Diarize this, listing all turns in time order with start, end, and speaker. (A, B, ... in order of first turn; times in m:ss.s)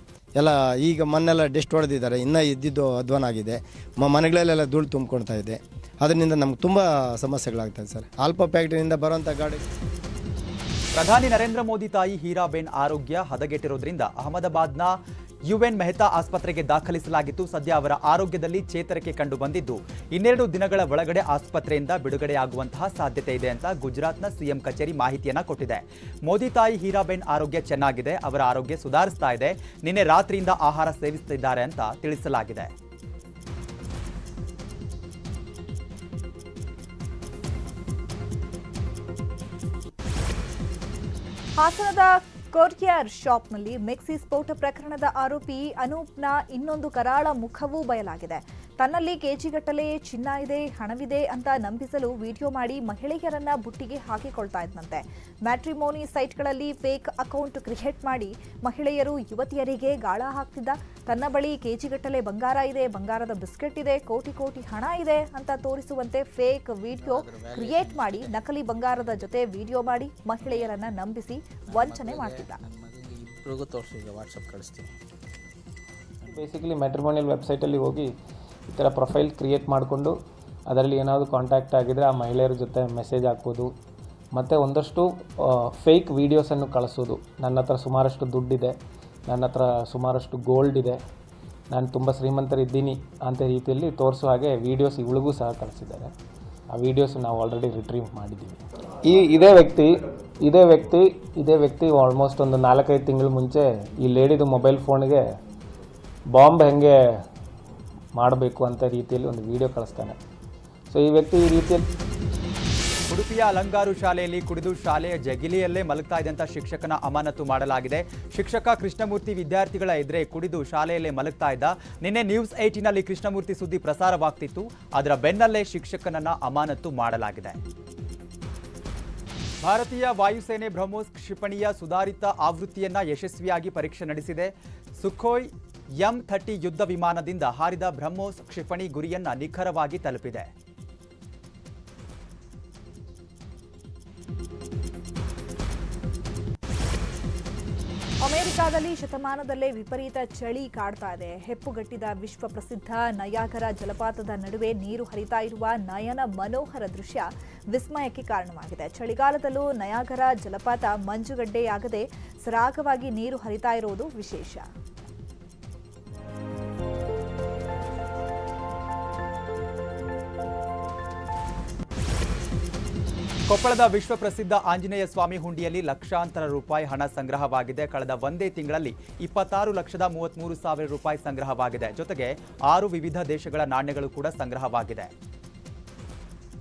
0:00.4-0:09.6 A
0:11.0-0:14.9 B
0:15.5-0:32.7 B
0:41.6-1:12.6 C
1:07.0-1:08.4 D
1:08.9-1:09.2 D
1:10.4-1:10.8 D
1:11.7-1:14.9 D
1:16.2-1:16.5 D
1:16.3-1:18.1 E
1:18.7-1:20.2 E
1:20.7-1:23.7 E
1:24.3-1:28.7 E
1:29.3-1:31.0 E
1:31.7-1:36.1 E
1:36.7-1:39.9 E
1:40.4-1:45.2 E
1:46.3-1:46.9 E
1:48.2-1:50.2 E
1:50.9-1:51.8 E
1:53.1-2:07.6 B
2:09.6-2:20.5 B
2:28.2-2:44.7 C
2:53.5-3:05.1 B